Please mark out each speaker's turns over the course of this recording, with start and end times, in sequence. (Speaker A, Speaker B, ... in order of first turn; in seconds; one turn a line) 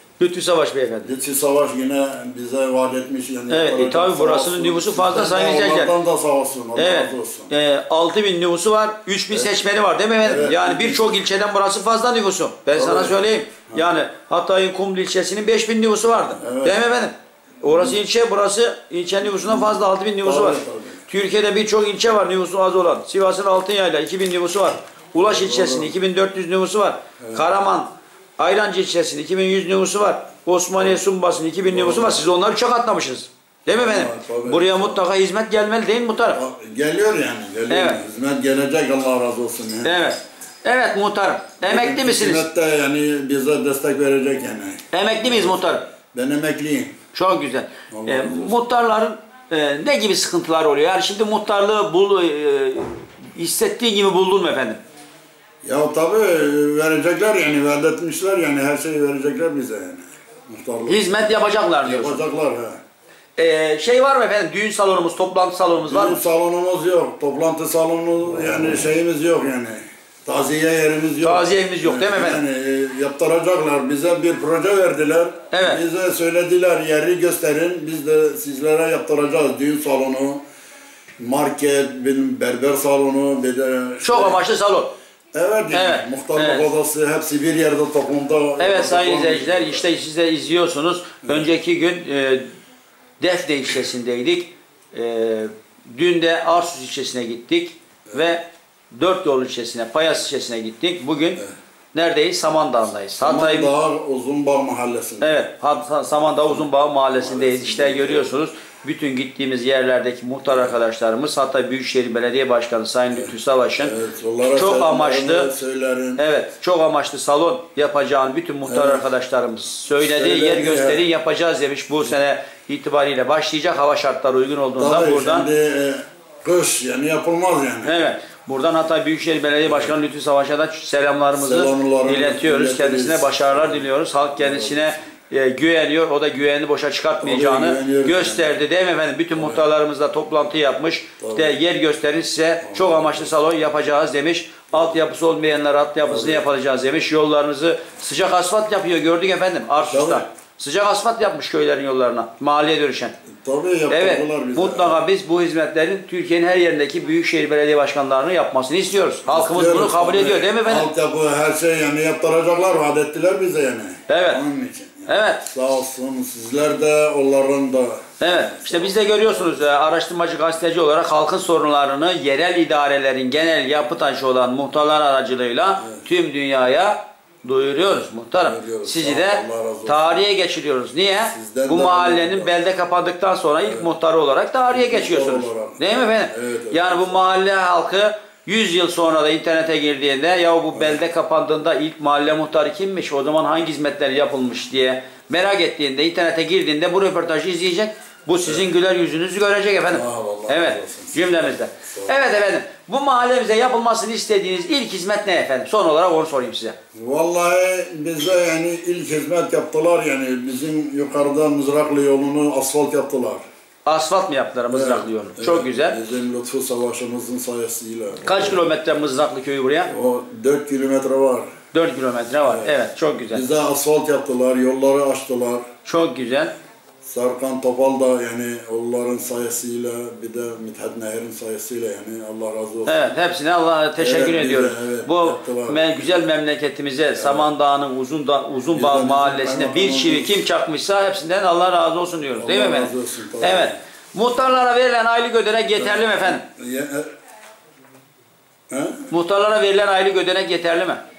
Speaker A: 0.2-1.1
Speaker B: 1.0-7.5
Speaker A: 3.5-5.9
Speaker A: 6.8-36.4
Speaker B: 10.2-11.2
Speaker B: 12.7-13.8
Speaker B: 16.4-16.8
Speaker B: 17.7-18.0
Speaker B: 19.2-21.0
Speaker B: 25.2-25.9
Speaker B: 27.2-27.4
Speaker B: 31.6-32.2
Speaker B: 33.7-35.0
Speaker B: 36.3-40.0
Speaker A: 37.7-38.0
Speaker A: 39.8-42.5
Speaker B: 41.6-47.0
Speaker A: 44.9-45.8
Speaker A: 47.1-54.8
Speaker B: 47.9-48.6
Speaker B: 55.6-62.8
Speaker A: 60.9-62.2
Speaker A: 63.4-66.2
Speaker B: 65.8-80.4
Speaker A: 71.2-72.4
Speaker A: 75.5-75.8
Speaker B: 81.2-84.4
Speaker A: 84.0-84.9
Speaker B: 85.3-89.9
Speaker A: 85.7-86.7
Speaker A: 88.6-92.5
Speaker A: 93.2-101.4
Speaker A: 101.9-103.7
Speaker B: 103.2-105.4
Speaker A: 105.2-114.0
Speaker B: 106.5-108.3
Speaker B: 113.1-116.2
Speaker A: 114.5-115.5
Speaker A: 116.2-125.5
Speaker B: 118.7-119.0
Speaker B: 120.0-121.0
Speaker B: 124.8-128.0
Speaker A: 127.8-153.1
Speaker B: 129.7-129.9
Speaker B: 131.3-133.9
Speaker B: 134.4-134.9
Speaker B: 137.2-138.5
Speaker B: 139.3-139.6
Speaker B: 141.2-141.6
Speaker B: 142.6-143.3
Speaker B: 146.1-146.5
Speaker B: 149.8-150.3
Speaker B: 153.4-155.0
Speaker A: 153.9-160.9
Speaker B: 159.3-169.6
Speaker A: 164.1-164.4
Speaker A: 165.1-165.5
Speaker A: 168.2-206.8
Speaker B: 178.4-180.2
Speaker B: 181.3-182.5
Speaker B: 183.6-183.9
Speaker B: 184.7-187.3
Speaker B: 199.9-202.3
Speaker B: 206.9-213.4
Speaker A: 213.8-216.0
Speaker B: 214.7-218.6
Speaker A: 218.2-219.9
Speaker B: 219.9-221.5
Speaker A: 221.7-223.4
Speaker B: 222.4-225.6
Speaker A: 225.8-226.5
Speaker B: 227.1-233.1
Speaker A: 232.9-246.4
Speaker B: 234.0-236.1
Speaker B: 237.2-237.5
Speaker B: 238.7-240.4
Speaker B: 242.3-243.8
Speaker B: 245.7-247.1
Speaker B: 248.7-249.1
Speaker A: 249.1-251.0